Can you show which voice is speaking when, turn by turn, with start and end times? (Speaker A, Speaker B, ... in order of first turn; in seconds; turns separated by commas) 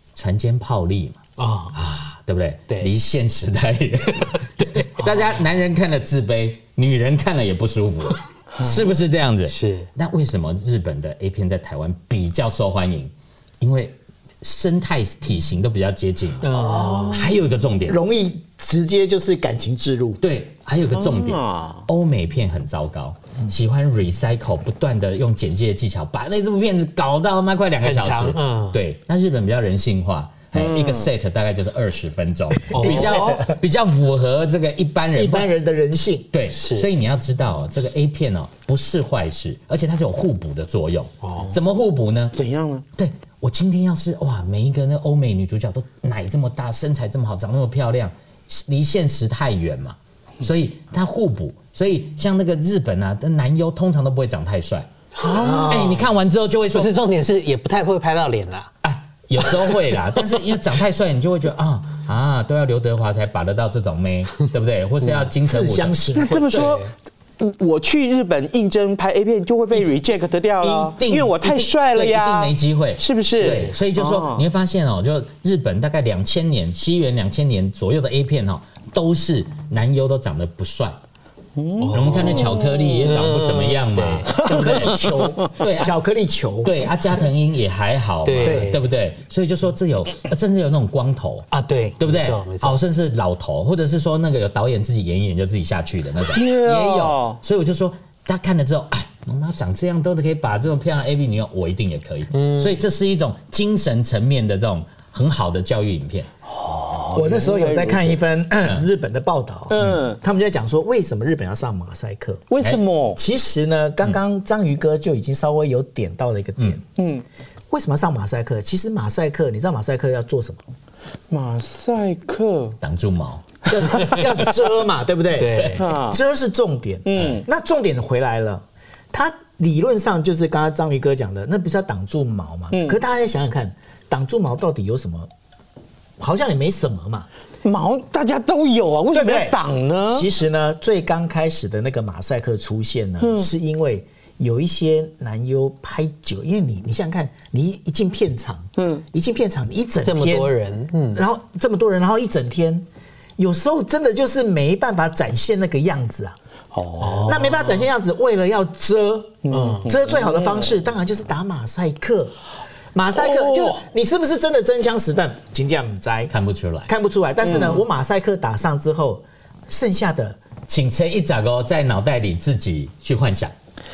Speaker A: 0.1-1.2, Speaker B: 1.4-1.8, Speaker A: 1.7-16.6, Speaker B: 4.6-5.2, Speaker B: 9.5-9.9, Speaker B: 16.4-17.2, Speaker C: 16.5-17.3, Speaker A: 17.1-18.0, Speaker C: 17.9-20.2, Speaker A: 20.2-35.5, Speaker D: 20.9-21.9, Speaker B: 27.8-28.8, Speaker D: 30.6-31.1, Speaker B: 32.7-33.4, Speaker C: 32.7-33.6, Speaker C: 35.1-36.3, Speaker A: 36.3-42.4, Speaker B: 36.5-36.9, Speaker B: 41.2-41.6, Speaker D: 42.3-42.9, Speaker A: 43.0-54.9, Speaker B: 55.2-56.1, Speaker D: 55.2-56.0, Speaker A: 55.7-57.0, Speaker B: 56.7-58.7, Speaker A: 58.8-66.0, Speaker C: 65.4-66.8, Speaker D: 66.1-74.5, Speaker B: 66.5-66.9, Speaker C: 70.6-71.6, Speaker A: 71.9-81.0, Speaker D: 81.6-82.6, Speaker B: 81.8-84.6, Speaker A: 81.9-86.0, Speaker C: 84.5-86.8, Speaker D: 84.5-85.5, Speaker A: 86.6-106.3, Speaker B: 88.2-88.8, Speaker C: 88.4-88.8, Speaker B: 91.5-92.8, Speaker D: 96.3-97.4, Speaker B: 102.3-102.8, Speaker D: 106.5-108.2, Speaker C: 107.1-112.4, Speaker D: 109.7-110.2, Speaker D: 112.5-113.2, Speaker C: 113.2-116.8, Speaker D: 117.0-117.2, Speaker C: 117.7-120.6, Speaker D: 121.3-122.8, Speaker A: 122.8-123.5, Speaker C: 123.7-135.3, Speaker B: 125.4-125.8, Speaker D: 125.8-126.2, Speaker D: 127.1-127.5, Speaker D: 132.7-133.0, Speaker C: 136.2-137.3, Speaker D: 137.6-140.3, Speaker C: 139.1-139.6, Speaker C: 140.1-150.5, Speaker D: 143.2-143.5, Speaker D: 148.8-149.0, Speaker B: 150.0-151.2, Speaker C: 151.1-152.9, Speaker C: 153.4-156.4, Speaker D: 156.7-157.4, Speaker B: 157.0-157.8, Speaker C: 157.2-162.3, Speaker D: 159.4-160.6, Speaker B: 159.5-159.9, Speaker C: 162.9-166.3, Speaker D: 163.1-163.8, Speaker A: 166.3-166.9, Speaker C: 166.9-170.4, Speaker A: 170.7-173.5